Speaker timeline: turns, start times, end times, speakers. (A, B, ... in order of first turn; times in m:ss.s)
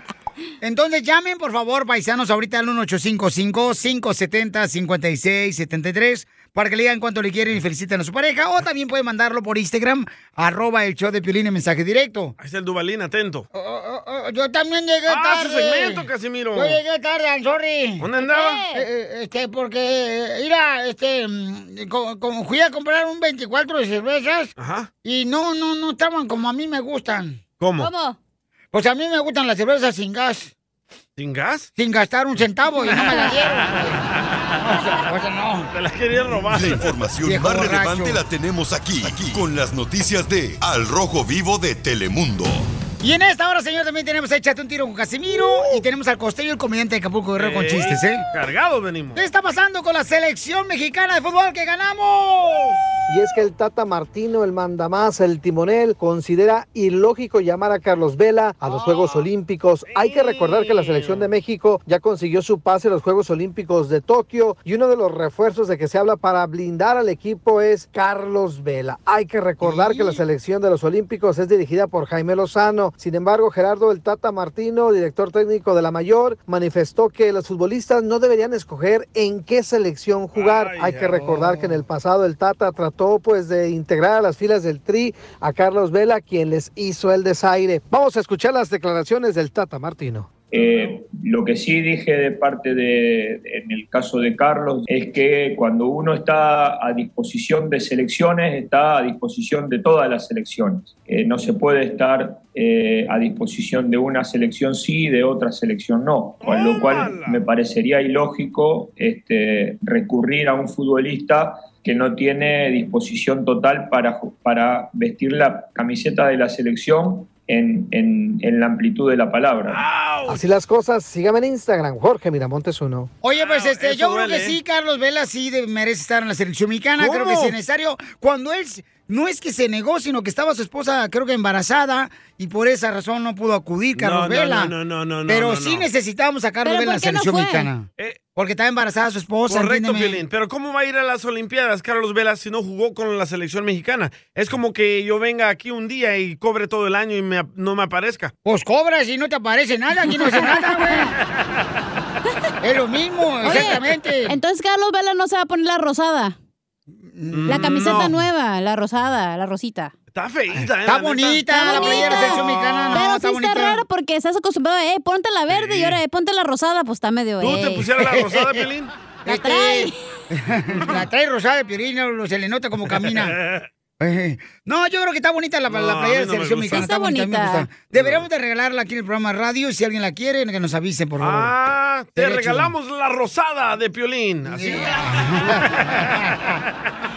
0:00.6-0:12.4 A
0:12.4-0:13.5 B
0:13.5-0:16.0 A
0:15.1-0:16.8 B
0:16.6-0:24.5 A
0:18.0-0:18.6 B
0:18.2-0:18.9 C
0:24.6-0:24.9 B
0:25.0-0:27.4 A
0:27.6-0:27.9 B
0:27.8-0:28.2 C
0:28.7-0:30.5 A
0:31.2-0:31.7 B
0:31.8-0:34.0 A
0:32.9-0:33.3 C
0:33.1-0:33.4 B
0:34.6-0:35.7 A
0:35.7-0:36.9 B
0:36.5-0:42.7 D
0:37.2-0:38.2 A
0:43.0-0:48.2 A
0:47.4-0:49.2 B
0:49.2-0:52.7 A
0:53.1-1:30.3 E
0:58.8-0:59.2 B
0:59.9-1:01.3 B
1:09.6-1:10.2 A
1:20.3-1:21.4 B
1:30.5-1:59.8 F
1:30.6-1:31.0 B
1:46.4-1:47.4 B
1:59.7-2:00.4 B
2:00.3-2:03.1 E
2:03.2-2:14.7 A
2:03.3-2:04.6 B
2:07.0-2:07.6 B
2:14.0-2:15.9 B
2:15.3-2:20.2 A
2:16.6-2:17.7 C
2:19.5-2:28.3 B
2:28.4-2:31.1 A
2:30.1-2:30.5 C
2:32.6-2:34.4 A
2:33.4-2:36.4 C
2:37.1-2:38.0 A
2:37.3-2:38.2 B
2:37.5-2:39.9 C
2:40.1-2:43.0 B
2:40.8-2:43.8 A
2:41.5-2:47.9 C
2:45.5-2:46.0 B
2:47.4-2:48.9 B
2:48.0-2:48.6 A
2:49.3-2:50.0 C
2:49.3-2:53.4 A
2:52.9-2:53.7 B
2:54.0-3:01.5 A
2:55.7-2:56.9 B
2:56.7-2:57.7 C
2:57.9-2:58.3 B
3:01.2-3:06.2 B
3:02.2-3:02.7 A
3:04.5-3:06.6 A